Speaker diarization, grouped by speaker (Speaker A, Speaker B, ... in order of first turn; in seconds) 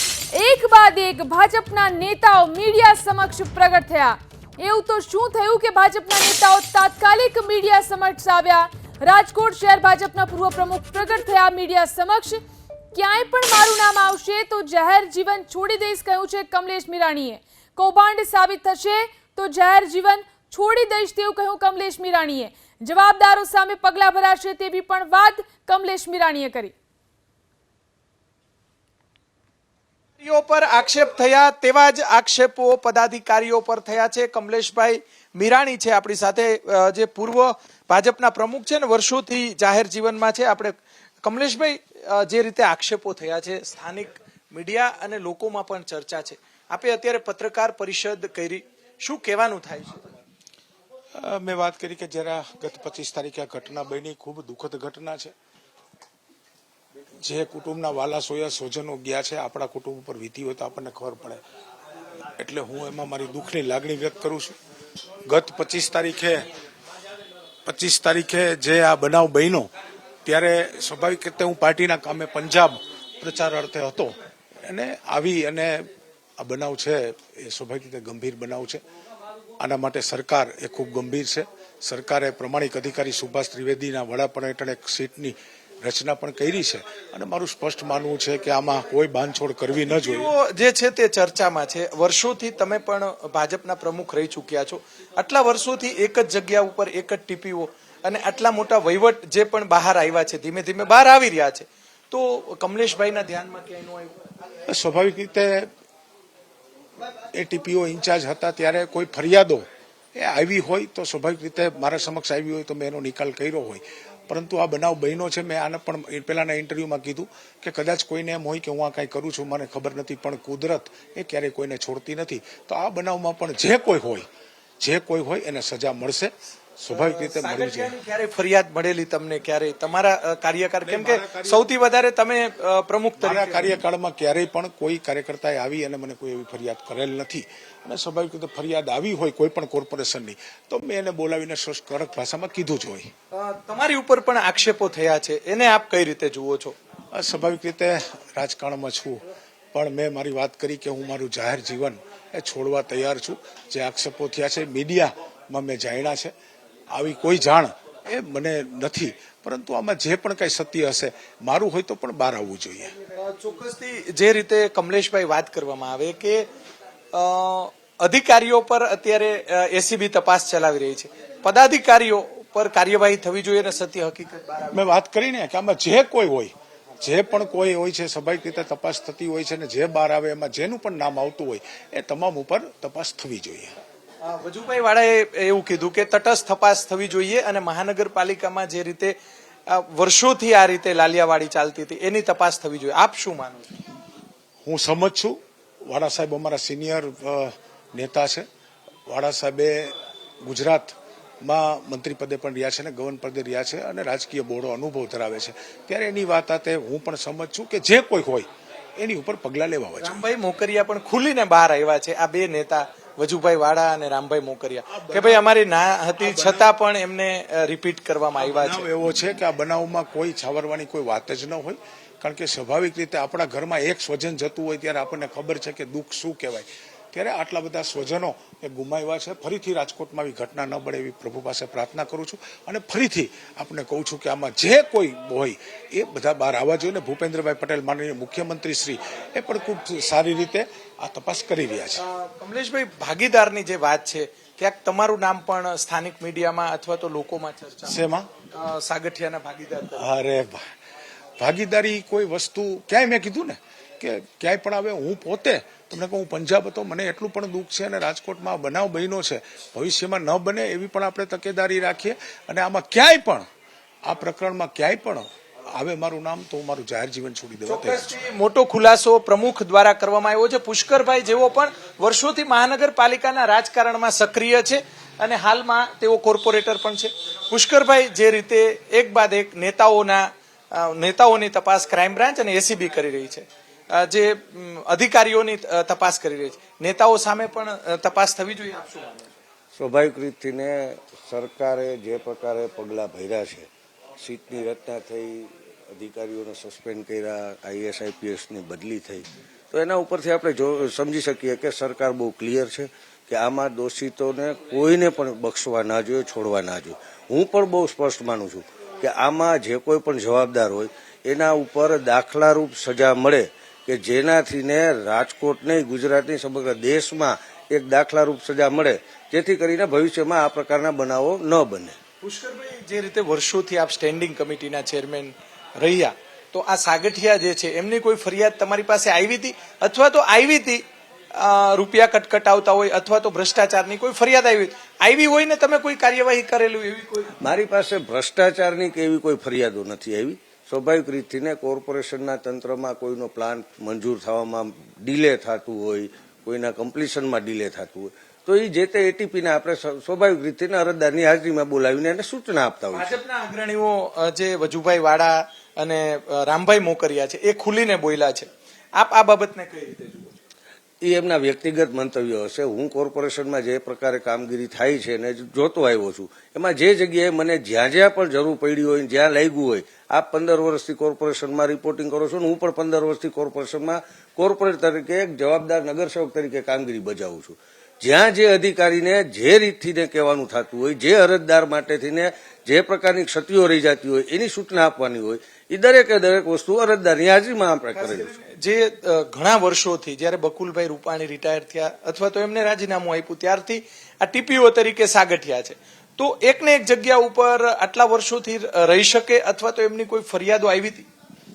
Speaker A: 0.3-12.4, 12.9-26.7
Speaker B: 30.2-50.1, 89.9-104.2, 126.9-133.7, 143.3-146.8, 163.2-166.5, 167.1-174.8, 184.2-189.1, 189.7-193.7, 210.0-218.8, 242.0-248.0, 248.5-250.1, 267.7-289.3, 322.2-337.3, 352.9-360.3, 387.9-401.1
Speaker C: 51.1-55.3, 57.2-61.4, 62.4-64.5, 65.3-66.5, 67.6-69.7, 70.2-78.8, 79.6-90.3, 104.7-105.7, 107.3-124.2, 124.8-127.9, 130.8-131.6, 133.2-143.1, 147.1-156.3, 156.9-162.9, 174.7-183.7, 194.6-198.4, 199.1-210.2, 214.9-215.4, 216.2-216.7, 218.4-242.0, 247.8-248.3, 249.9-250.6, 251.4-263.4, 264.0-268.1
Speaker D: 289.7-293.7, 294.2-321.9, 337.4-353.1, 361.0-388.3